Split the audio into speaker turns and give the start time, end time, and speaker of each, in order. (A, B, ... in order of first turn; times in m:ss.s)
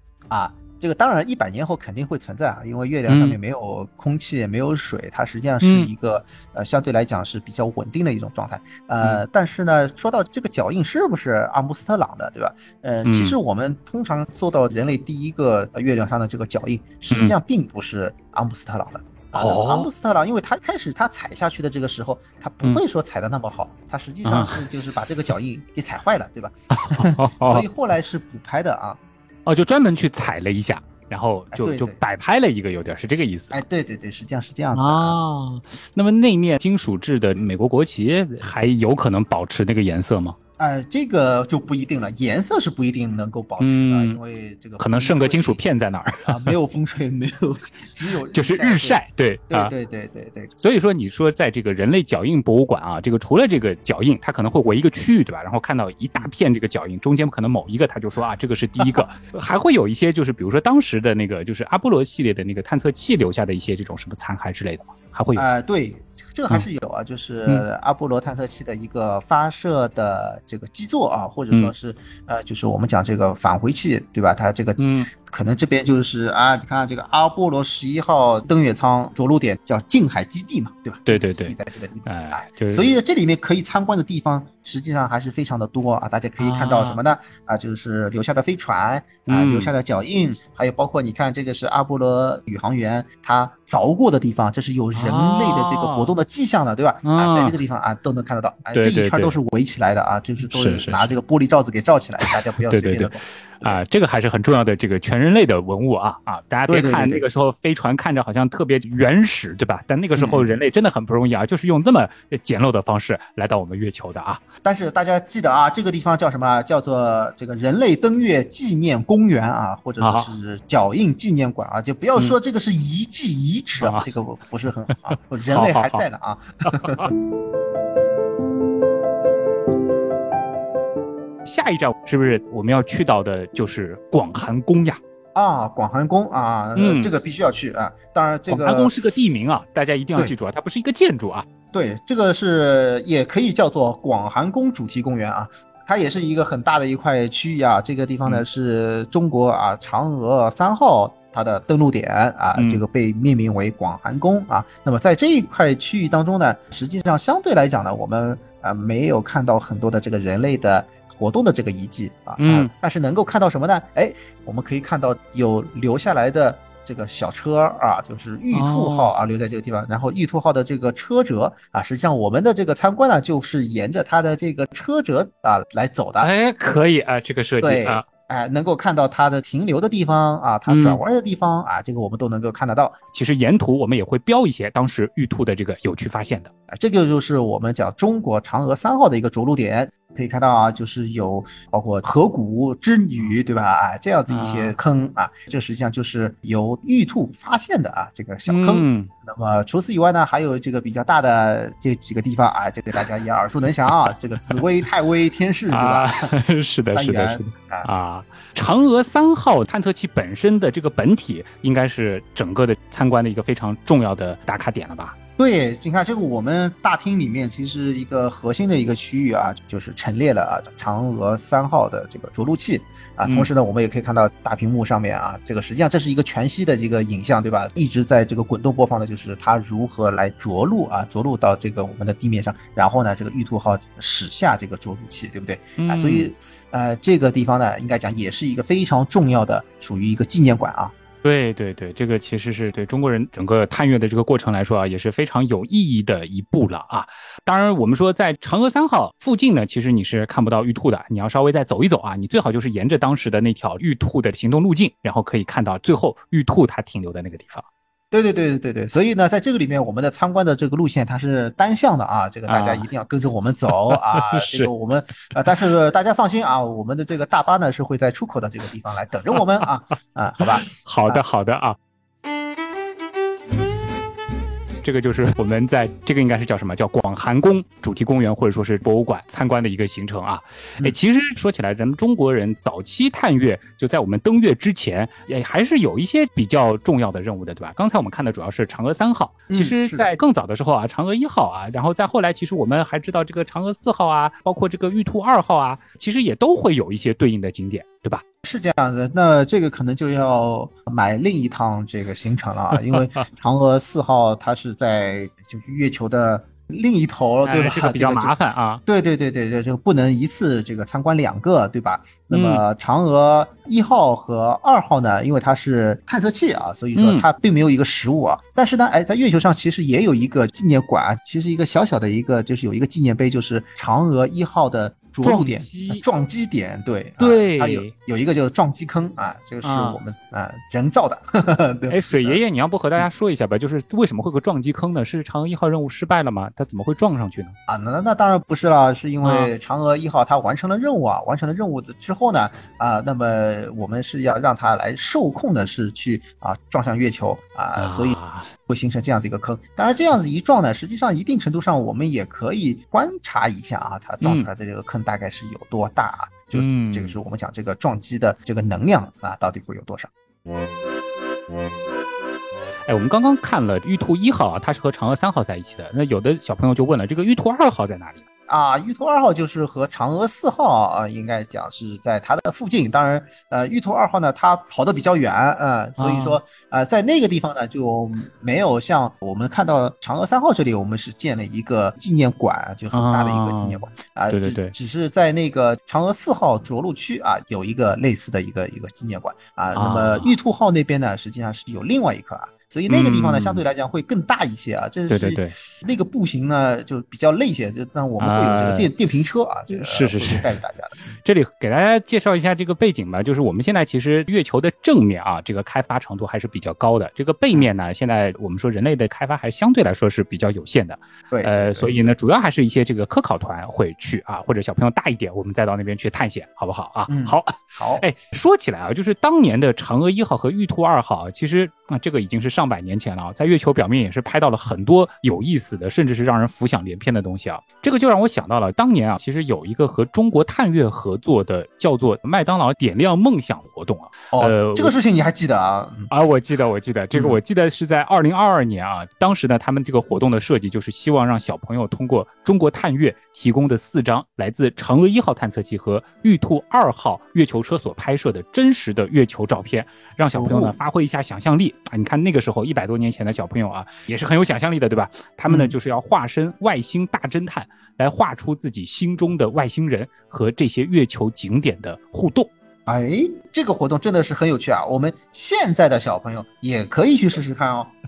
0:00.3-0:29.0 A
0:03.1-0:03.4 B
0:05.6-0:05.9 B
0:13.0-0:13.4 B
0:17.1-0:17.3 B
0:19.3-0:19.9 B
0:24.2-0:24.7 B
0:26.7-0:27.7 B
0:29.4-0:33.6 B
0:31.5-0:32.0 A
0:33.5-0:35.2 A
0:34.7-0:40.4 B
0:40.6-0:45.6 A
0:43.6-0:44.2 B
0:44.8-0:46.5 B
0:46.2-0:50.5 A
0:48.3-0:49.7 B
0:50.6-1:05.4 B
1:05.4-1:43.8 A
1:14.8-1:15.1 B
1:21.1-1:22.9 B
1:26.4-1:27.0 B
1:29.3-1:29.7 B
1:34.9-1:36.1 B
1:37.0-1:37.6 B
1:38.7-1:39.4 B
1:40.4-1:41.1 B
1:42.2-1:54.4 B
1:46.7-1:47.2 A
1:50.2-1:50.5 A
1:54.6-2:07.0 A
2:00.0-2:00.3 B
2:03.8-2:04.1 B
2:05.5-2:06.0 B
2:06.6-2:07.1 B
2:11.4-2:15.0 B
2:15.3-2:18.9 A
2:16.7-2:17.1 B
2:18.5-2:21.4 B
2:21.7-2:56.3 A
2:32.6-2:32.8 B
2:42.4-2:42.7 B
2:48.5-2:49.1 B
2:56.2-2:58.0 B
2:57.6-3:03.0 A
3:00.7-3:01.0 B
3:03.1-3:06.5 B
3:06.7-3:26.3 A
3:14.3-3:14.8 B
3:18.5-3:19.1 B
3:25.7-3:35.2 B
3:26.9-3:27.9 A
3:35.4-4:00.9 A
3:43.2-3:43.5 B
3:55.8-3:56.3 B
4:01.2-4:17.7 B
4:18.1-4:31.2 A
4:22.5-4:22.9 B
4:23.9-4:24.7 B
4:30.6-4:31.8 B
4:34.8-4:58.2 B
4:49.5-4:50.1 A
4:58.4-5:32.4 A
5:07.4-5:08.8 B
5:12.3-5:12.6 B
5:16.9-5:17.3 B
5:25.2-5:26.0 B
5:27.2-5:27.9 B
5:29.6-5:30.0 B
5:31.9-5:37.6 B
5:37.7-6:00.1 A
5:39.2-5:39.5 B
5:47.8-5:48.5 B
5:54.2-5:54.5 B
5:56.5-5:57.2 B
6:02.9-6:08.2 B
6:08.5-6:41.1 A
6:16.0-6:16.4 B
6:22.9-6:24.7 B
6:29.7-6:30.3 B
6:32.9-6:33.6 B
6:35.1-6:35.5 B
6:38.2-6:38.9 B
6:39.7-6:40.5 B
6:41.2-7:14.9 B
6:51.3-6:52.0 A
6:57.1-6:58.0 A
7:14.3-7:16.1 A
7:16.1-7:42.5 B
7:30.3-7:30.8 A
7:35.5-7:35.7 A
7:42.8-7:47.9 A